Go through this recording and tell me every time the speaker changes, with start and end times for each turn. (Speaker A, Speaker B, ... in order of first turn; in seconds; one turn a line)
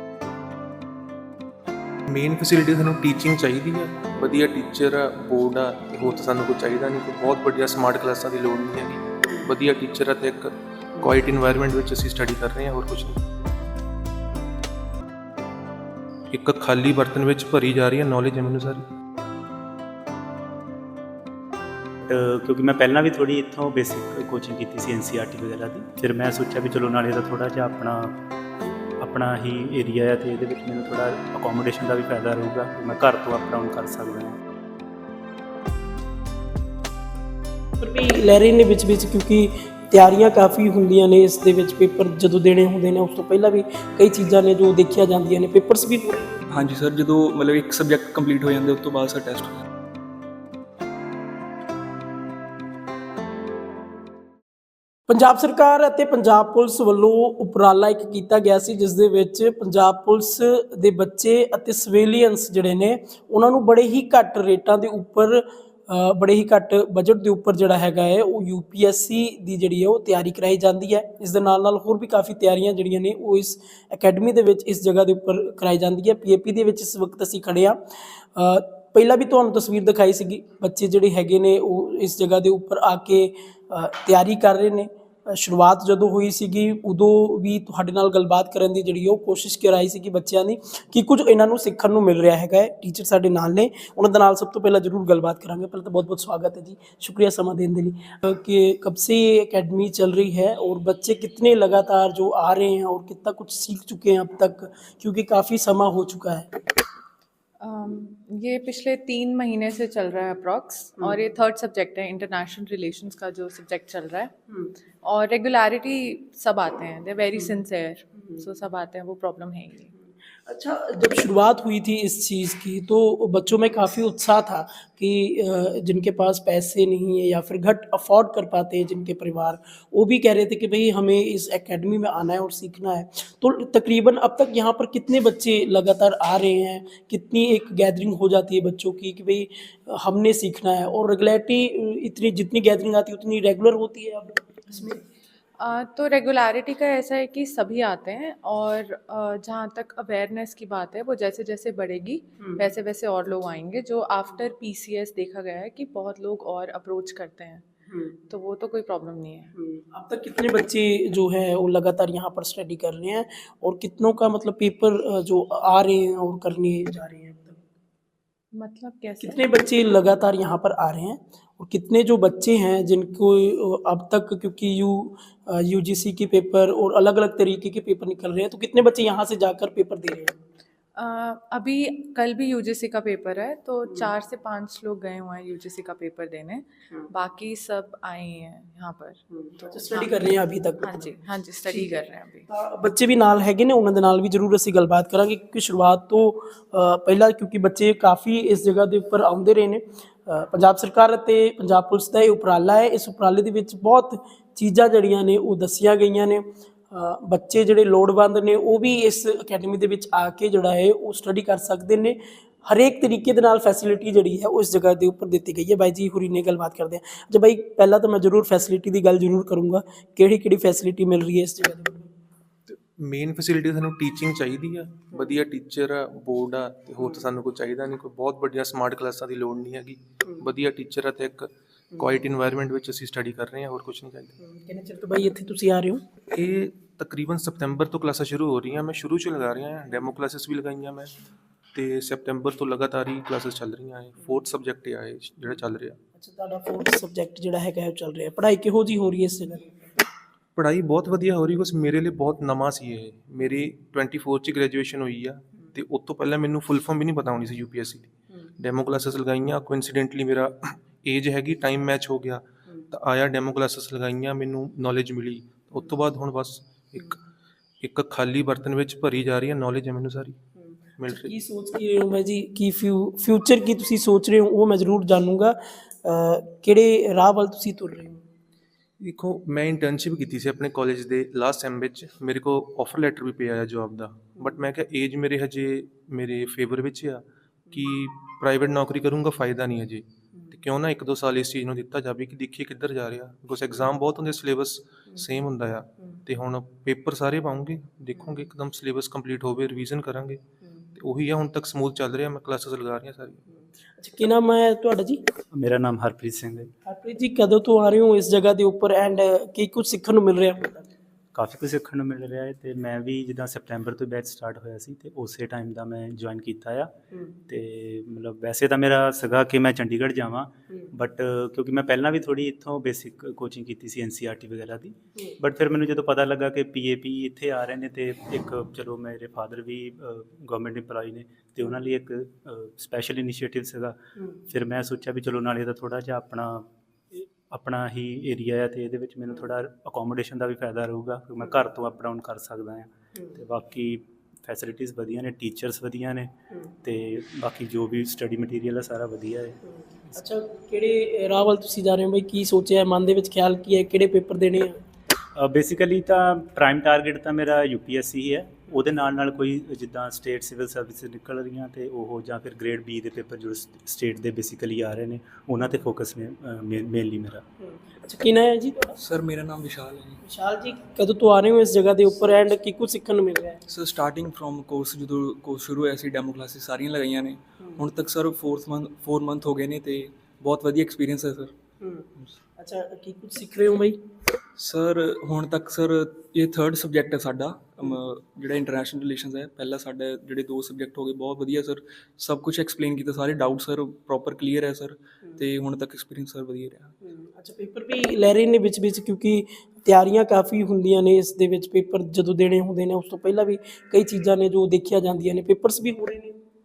Speaker A: 2.1-13.2
Speaker A: 16.3-18.8
Speaker B: 22.0-28.2
Speaker B: 29.0-34.4
Speaker C: 37.8-46.4
Speaker D: 46.5-49.7
Speaker C: 55.1-77.8
Speaker C: 78.4-106.5
Speaker E: 107.6-114.3
Speaker E: 115.0-119.9
Speaker C: 120.5-145.0
Speaker E: 145.6-157.7
Speaker C: 157.9-158.2
Speaker E: 158.3-159.5
Speaker C: 159.6-167.7
Speaker E: 168.6-169.4
Speaker C: 169.2-180.4
Speaker E: 181.0-192.5
Speaker C: 189.4-191.1
Speaker C: 191.7-191.9
Speaker C: 192.5-222.1
Speaker A: 222.7-234.3
Speaker C: 225.1-225.4
Speaker C: 234.4-236.0
Speaker A: 236.3-241.1
Speaker A: 241.8-246.0
Speaker C: 246.2-250.0
Speaker A: 250.6-267.2
Speaker A: 267.8-270.4
Speaker C: 270.6-278.2
Speaker A: 271.0-271.3
Speaker A: 279.0-300.4
Speaker A: 301.0-303.4
Speaker C: 304.0-305.2
Speaker B: 305.5-306.7
Speaker C: 306.9-310.9
Speaker B: 311.3-316.9
Speaker B: 317.5-346.3
Speaker B: 346.8-350.2
Speaker C: 350.1-354.8
Speaker B: 355.4-367.4
Speaker C: 367.6-369.0
Speaker D: 369.0-370.2
Speaker C: 370.2-373.6
Speaker D: 373.7-381.6
Speaker C: 381.8-384.0
Speaker D: 384.6-396.9
Speaker C: 397.1-406.4